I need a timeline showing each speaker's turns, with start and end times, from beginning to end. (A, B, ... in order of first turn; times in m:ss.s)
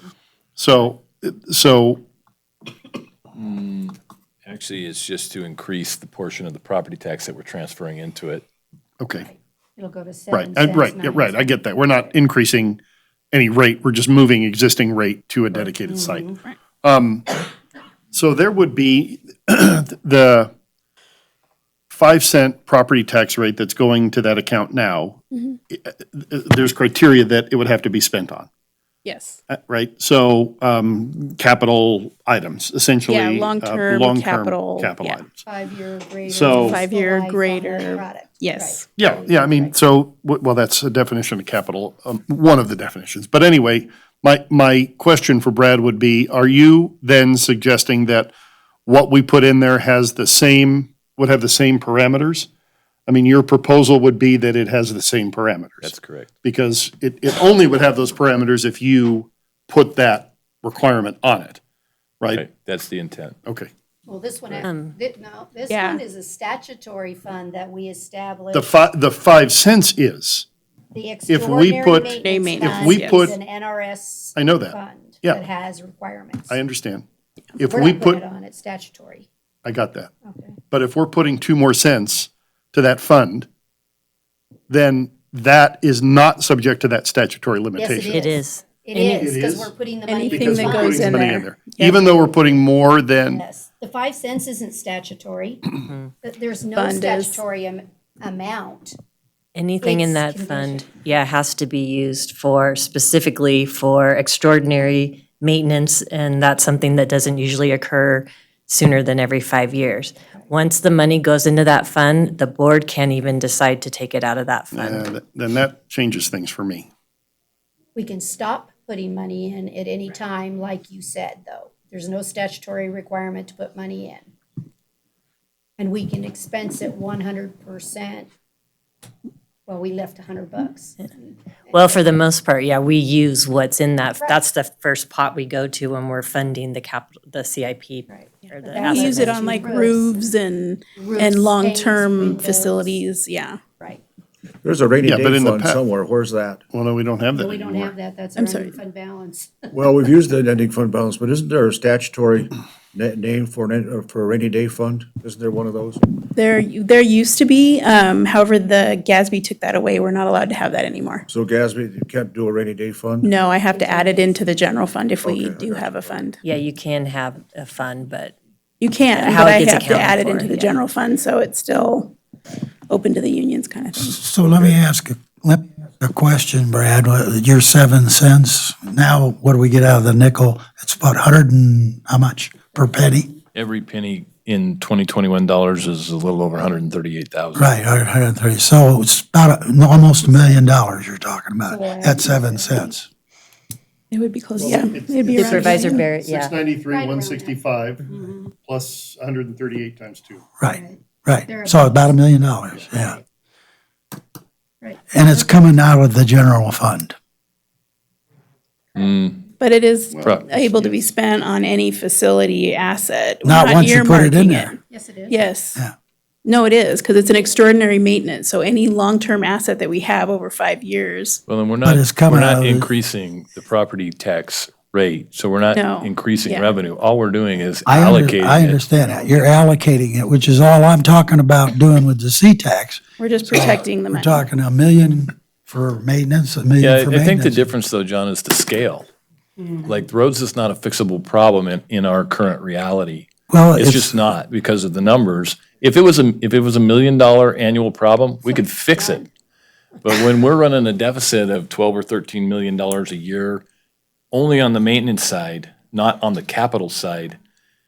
0:00.6-0:02.0 A
0:03.4-0:08.4 B
0:09.0-0:09.3 A
0:09.1-0:11.6 C
0:10.3-0:12.8 A
0:13.3-0:17.5 A
0:15.9-0:16.3 C
0:18.1-0:20.5 A
0:21.9-0:28.5 A
0:29.0-0:29.4 D
0:29.5-0:35.4 A
0:33.1-0:35.2 D
0:35.4-0:39.8 C
0:36.3-0:36.8 A
0:36.5-0:38.9 D
0:39.0-0:48.3 A
0:48.9-0:52.5 A
0:53.1-0:55.9 A
0:55.8-0:56.3 B
0:56.4-1:01.6 A
1:02.3-1:03.4 B
1:04.1-1:08.7 C
1:04.6-1:05.0 E
1:05.7-1:06.0 D
1:08.5-1:10.5 A
1:10.9-1:16.6 C
1:11.3-1:13.4 A
1:12.2-1:13.3 D
1:14.4-1:15.4 A
1:16.5-1:17.0 A
1:17.6-1:18.2 A
1:17.7-1:19.3 C
1:19.6-1:20.1 A
1:20.2-1:20.6 C
1:20.7-1:23.5 A
1:24.7-1:28.2 A
1:27.8-1:31.4 C
1:28.1-1:29.3 E
1:29.2-1:29.7 A
1:30.1-1:32.2 D
1:30.2-1:33.4 A
1:33.3-1:39.0 C
1:36.7-1:37.4 D
1:39.6-1:55.1 E
1:39.8-1:41.0 C
1:54.7-1:56.9 A
1:58.0-2:04.3 C
2:05.8-2:08.3 C
2:09.7-2:12.1 C
2:11.7-2:19.9 E
2:14.2-2:14.4 C
2:18.1-2:20.2 C
2:18.9-2:23.6 D
2:21.0-2:23.0 C
2:24.6-2:26.6 F
2:25.0-2:25.8 A
2:26.7-2:27.9 A
2:27.4-2:29.7 C
2:28.4-2:28.7 D
2:29.7-2:36.1 F
2:36.3-2:41.2 D
2:41.3-2:43.4 F
2:43.2-2:46.4 D
2:43.5-2:44.6 C
2:45.2-2:46.3 F
2:46.4-2:48.4 E
2:48.8-2:52.1 D
2:49.1-2:50.8 E
2:52.9-2:54.1 D
2:54.0-3:03.3 G
3:03.6-3:07.7 B
3:07.6-3:13.1 G
3:11.7-3:12.9 C
3:14.1-3:16.1 D
3:14.6-3:18.0 A
3:15.4-3:16.6 E
3:16.9-3:18.5 C
3:18.6-3:20.4 A
3:20.6-3:23.2 G
3:20.7-3:23.2 C
3:24.8-3:25.4 C
3:25.1-3:27.2 G
3:29.0-3:29.4 B
3:29.6-3:34.8 D
3:30.1-3:31.1 A
3:30.2-3:30.5 B
3:33.4-3:34.8 G
3:34.9-3:35.5 C
3:35.3-3:35.8 D
3:36.4-3:41.4 D
3:41.5-3:49.4 B
3:41.8-3:42.9 G
3:45.8-3:46.7 D
3:47.9-3:57.7 G
3:53.2-3:54.5 D
3:56.8-3:59.1 B
3:59.8-4:09.2 B
4:03.5-4:04.2 G
4:08.5-4:09.2 C
4:10.0-4:13.6 B
4:14.3-4:17.4 B